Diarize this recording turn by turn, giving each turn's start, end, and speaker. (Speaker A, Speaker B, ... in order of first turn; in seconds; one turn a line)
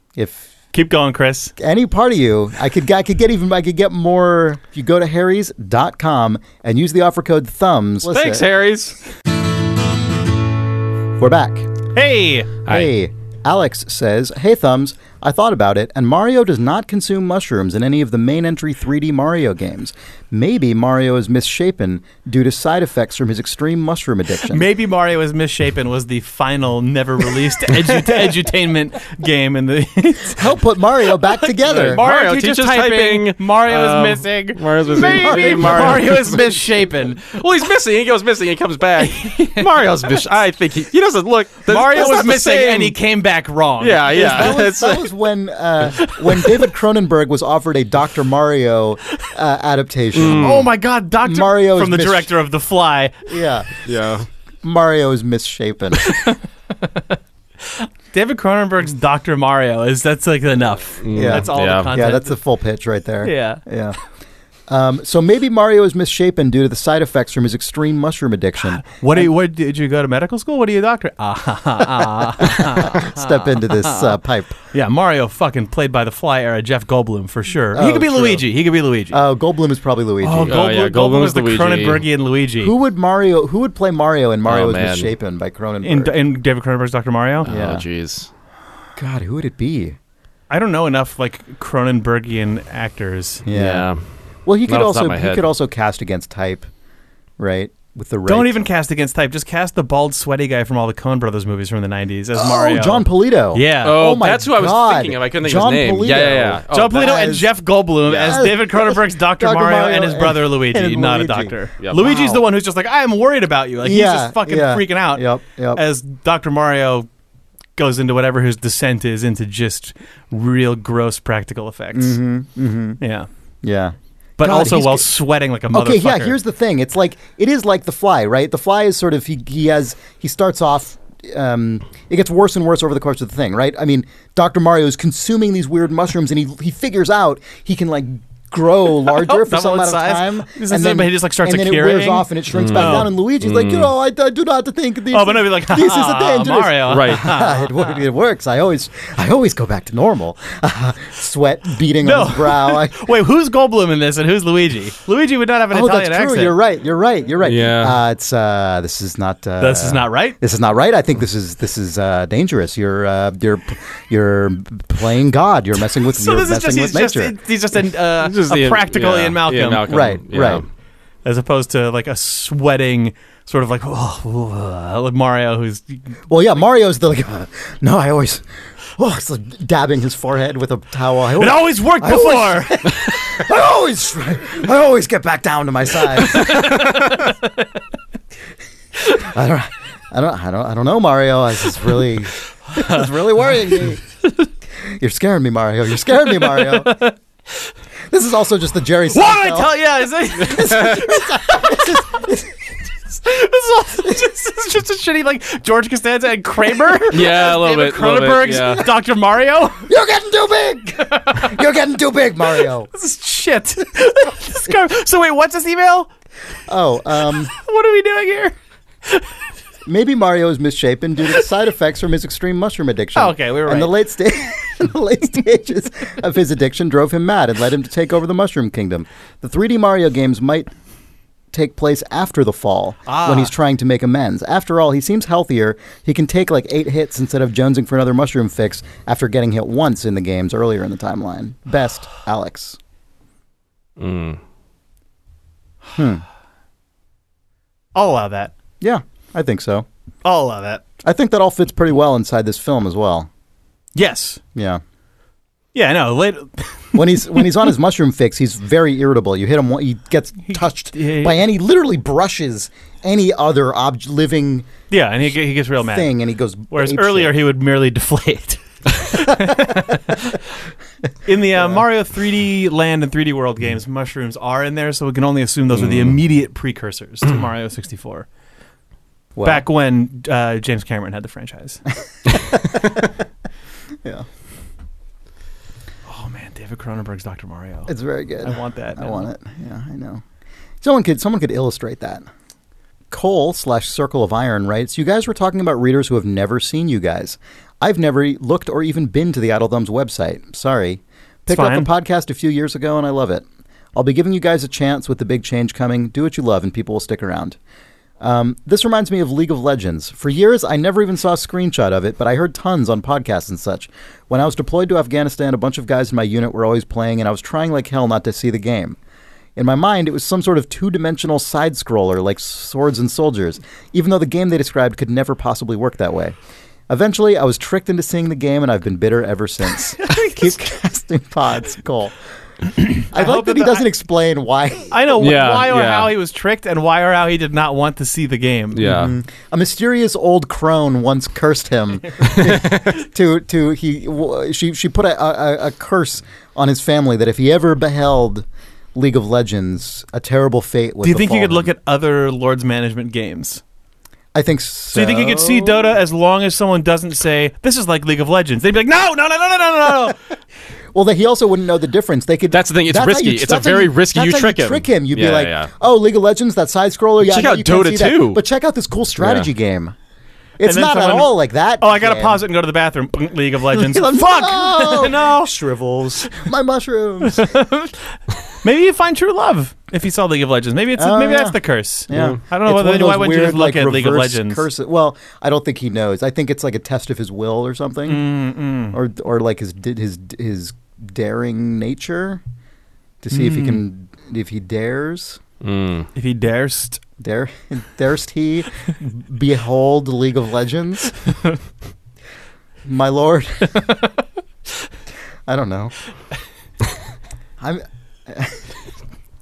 Speaker A: 0.1-0.5
Speaker B: 0.7-1.5
Speaker A: 1.6-8.4
Speaker C: 8.0-9.0
Speaker A: 11.2-11.7
Speaker B: 11.9-12.5
Speaker C: 12.7-12.9
Speaker A: 12.7-24.6
Speaker B: 24.5-30.5
Speaker A: 30.3-32.0
Speaker B: 31.3-37.3
Speaker C: 31.6-36.5
Speaker A: 35.0-36.2
Speaker C: 37.2-43.0
Speaker B: 39.0-39.7
Speaker B: 41.7-44.6
Speaker C: 43.8-45.1
Speaker A: 44.1-50.7
Speaker B: 46.0-46.6
Speaker C: 50.1-50.7
Speaker B: 50.2-53.3
Speaker A: 51.2-52.3
Speaker A: 53.3-53.7
Speaker C: 53.9-54.3
Speaker A: 54.6-56.1
Speaker B: 56.0-62.4
Speaker C: 61.0-61.9
Speaker A: 61.1-64.0
Speaker B: 63.2-63.6
Speaker A: 64.7-69.3
Speaker B: 68.6-74.2
Speaker A: 72.4-74.5
Speaker B: 74.7-79.2
Speaker A: 77.7-78.5
Speaker A: 79.1-80.6
Speaker B: 80.2-82.7
Speaker C: 80.4-82.0
Speaker A: 82.6-86.1
Speaker C: 84.5-85.1
Speaker B: 85.8-87.5
Speaker C: 87.4-88.3
Speaker A: 87.5-87.8
Speaker A: 89.0-90.0
Speaker B: 90.5-93.4
Speaker A: 93.4-93.9
Speaker C: 93.5-94.0
Speaker A: 94.5-96.7
Speaker C: 94.7-95.5
Speaker A: 97.4-98.6
Speaker B: 98.2-104.0
Speaker A: 102.3-107.5
Speaker C: 103.8-107.2
Speaker B: 106.7-117.1
Speaker C: 108.1-108.4
Speaker A: 108.2-111.5
Speaker C: 111.8-112.3
Speaker A: 112.0-112.3
Speaker A: 113.8-115.8
Speaker B: 117.8-122.2
Speaker A: 121.9-123.0
Speaker B: 123.0-123.3
Speaker A: 123.6-125.1
Speaker B: 124.4-126.4
Speaker A: 125.7-152.9
Speaker B: 139.1-143.1
Speaker C: 142.5-143.9
Speaker B: 145.1-148.0
Speaker C: 146.8-147.2
Speaker B: 152.0-156.5
Speaker A: 155.7-167.3
Speaker C: 157.4-158.0
Speaker B: 159.6-160.4
Speaker B: 166.0-169.8
Speaker C: 168.2-170.7
Speaker A: 169.9-170.6
Speaker B: 171.2-176.1
Speaker A: 176.3-178.4
Speaker A: 178.9-187.0
Speaker B: 181.4-183.3
Speaker B: 186.3-187.4
Speaker A: 189.1-194.0
Speaker B: 192.8-193.0
Speaker A: 194.8-197.0
Speaker B: 196.5-197.1
Speaker A: 198.1-199.7
Speaker B: 199.1-202.2
Speaker A: 200.4-202.6
Speaker B: 203.2-209.8
Speaker C: 207.1-208.9
Speaker A: 209.8-212.9
Speaker B: 211.0-211.6
Speaker B: 212.9-216.1
Speaker A: 216.7-217.5
Speaker B: 217.4-218.5
Speaker A: 219.8-230.7
Speaker B: 223.1-223.9
Speaker A: 231.5-242.8
Speaker B: 233.1-233.5
Speaker C: 244.0-244.4
Speaker A: 245.9-246.2
Speaker B: 247.9-248.5
Speaker A: 248.8-249.8
Speaker B: 250.2-250.8
Speaker A: 251.0-253.3
Speaker B: 253.9-254.4
Speaker A: 254.5-254.8
Speaker B: 255.7-257.4
Speaker A: 256.9-264.7
Speaker B: 260.4-261.4
Speaker B: 264.9-266.1
Speaker A: 265.8-267.3
Speaker B: 266.7-270.4
Speaker B: 271.2-278.3
Speaker C: 275.8-276.2
Speaker A: 279.3-279.6
Speaker B: 279.4-281.8
Speaker A: 282.3-283.1
Speaker B: 286.1-287.9
Speaker A: 287.9-290.2
Speaker B: 288.4-289.3
Speaker A: 290.8-292.2
Speaker A: 293.1-307.6
Speaker B: 301.5-301.9
Speaker A: 308.2-319.0
Speaker A: 319.6-326.3
Speaker A: 326.9-332.1
Speaker B: 330.0-330.4
Speaker B: 332.9-333.9
Speaker A: 333.1-335.1
Speaker B: 334.9-338.9
Speaker C: 335.2-336.1
Speaker C: 338.7-339.1
Speaker A: 338.8-351.7
Speaker C: 342.2-342.9
Speaker B: 351.0-353.6
Speaker A: 354.3-355.9
Speaker B: 354.9-360.3
Speaker A: 360.9-369.9
Speaker C: 362.5-365.7
Speaker C: 367.2-368.4
Speaker C: 369.2-369.5
Speaker A: 370.6-372.4
Speaker B: 370.6-375.5
Speaker A: 373.7-377.5
Speaker B: 377.2-384.7
Speaker A: 381.0-388.2
Speaker C: 382.1-382.4
Speaker B: 388.1-389.0
Speaker A: 388.9-392.4
Speaker A: 393.2-395.4
Speaker B: 393.3-393.8
Speaker C: 395.6-396.1
Speaker B: 396.1-397.0
Speaker A: 397.2-401.1
Speaker A: 402.8-404.0
Speaker A: 405.5-405.9
Speaker A: 407.6-408.7